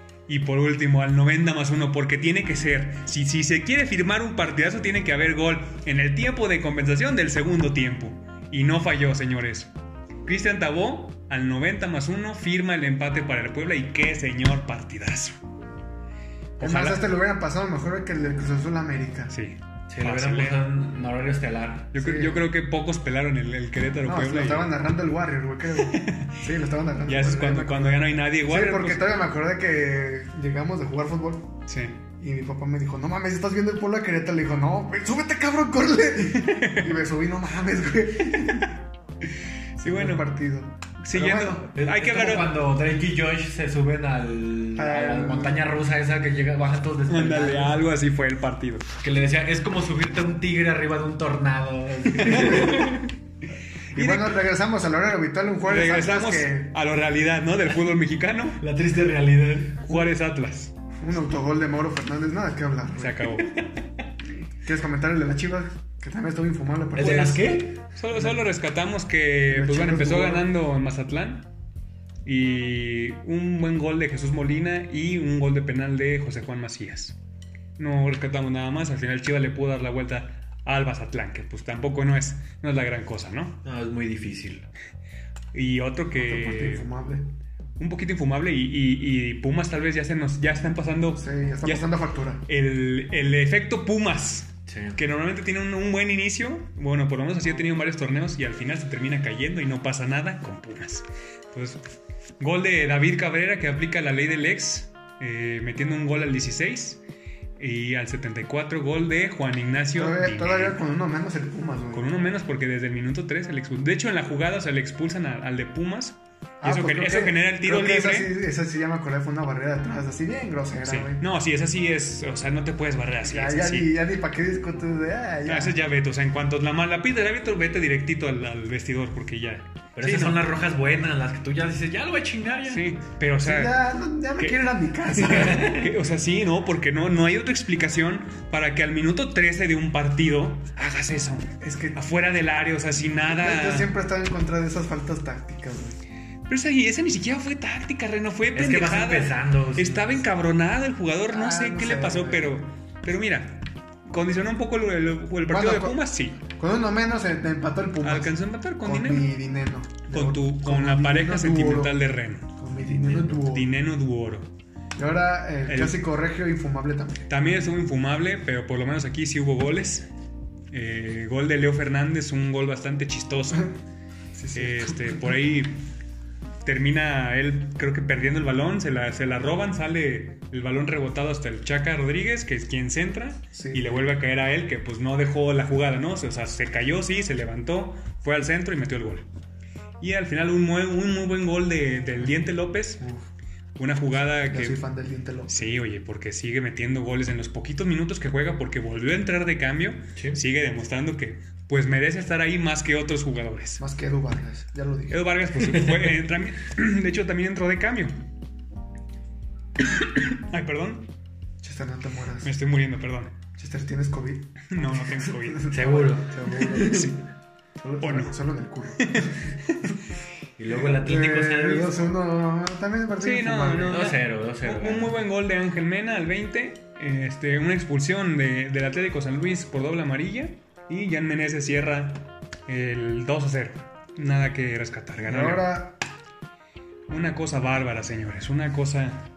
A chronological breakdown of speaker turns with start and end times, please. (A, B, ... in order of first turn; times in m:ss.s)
0:00.3-0:09.7 A
0:10.2-0:15.4 A
0:16.6-0:17.0 A
0:16.6-0:19.3 B
0:19.3-0:20.6 A
0:19.9-0:21.9 C
0:21.9-0:24.8 A
0:22.0-0:22.4 B
0:24.0-0:31.6 B
0:25.8-0:26.4 A
0:27.0-0:29.1 A
0:31.7-0:32.0 A
0:32.2-0:38.7 B
0:36.3-0:37.0 A
0:38.4-0:38.6 A
0:39.8-0:40.3 A
0:39.8-0:41.6 B
0:41.0-0:42.6 A
0:41.7-0:47.8 C
0:44.8-0:45.7 B
0:47.1-0:48.8 A
0:49.0-0:53.0 C
0:52.2-0:53.1 A
0:53.9-0:54.4 A
0:53.9-0:56.8 B
0:55.6-0:58.6 A
0:58.6-0:59.8 C
0:59.8-1:00.7 A
1:01.0-1:03.3 B
1:03.0-1:03.5 A
1:04.6-1:07.4 B
1:07.0-1:07.8 C
1:07.0-1:11.5 A
1:08.1-1:08.4 B
1:09.5-1:10.5 B
1:12.2-1:17.2 A
1:17.8-1:23.6 A
1:23.6-1:24.7 C
1:25.5-1:26.9 A
1:26.1-1:27.3 B
1:27.8-1:31.9 A
1:31.2-1:32.4 B
1:32.4-1:41.8 A
1:34.7-1:35.0 C
1:42.4-1:47.0 A
1:47.6-1:50.8 A
1:49.9-1:52.1 B
1:51.9-1:58.3 A
1:56.6-2:01.2 B
2:00.8-2:03.9 A
2:03.2-2:05.8 B
2:05.4-2:10.4 A
2:10.0-2:12.8 C
2:12.7-2:13.8 A
2:13.4-2:15.8 B
2:14.4-2:23.9 A
2:15.3-2:15.9 C
2:21.6-2:22.0 B
2:23.3-2:26.0 B
2:26.5-2:36.4 A
2:28.5-2:30.2 C
2:31.3-2:32.6 B
2:35.5-2:42.0 B
2:38.0-2:39.3 A
2:40.1-2:42.5 A
2:42.6-2:43.7 B
2:43.3-2:44.5 A
2:45.0-2:47.3 B
2:45.7-2:46.0 A
2:47.3-2:50.0 A
2:50.7-2:53.7 A
2:54.3-2:55.2 B
2:54.5-2:55.8 A
2:56.6-3:09.2 A
3:03.5-3:04.1 B
3:10.0-3:13.0 A
3:13.8-3:14.8 A
3:14.5-3:15.8 B
3:15.5-3:23.8 A
3:20.2-3:20.4 C
3:23.8-3:25.2 B
3:25.1-3:28.1 A
3:25.6-3:26.2 C
3:30.0-3:31.1 A
3:31.6-3:32.5 B
3:32.4-3:33.3 A
3:33.6-3:37.1 B
3:34.7-3:35.7 A
3:35.7-3:37.1 C
3:36.8-3:37.2 A
3:37.8-3:39.5 B
3:38.0-3:38.4 A
3:39.0-3:40.0 A
3:40.6-3:42.0 C
3:40.9-3:44.1 B
3:43.2-3:55.8 A
3:43.8-3:45.1 C
3:55.2-3:56.0 B
3:57.1-3:59.2 A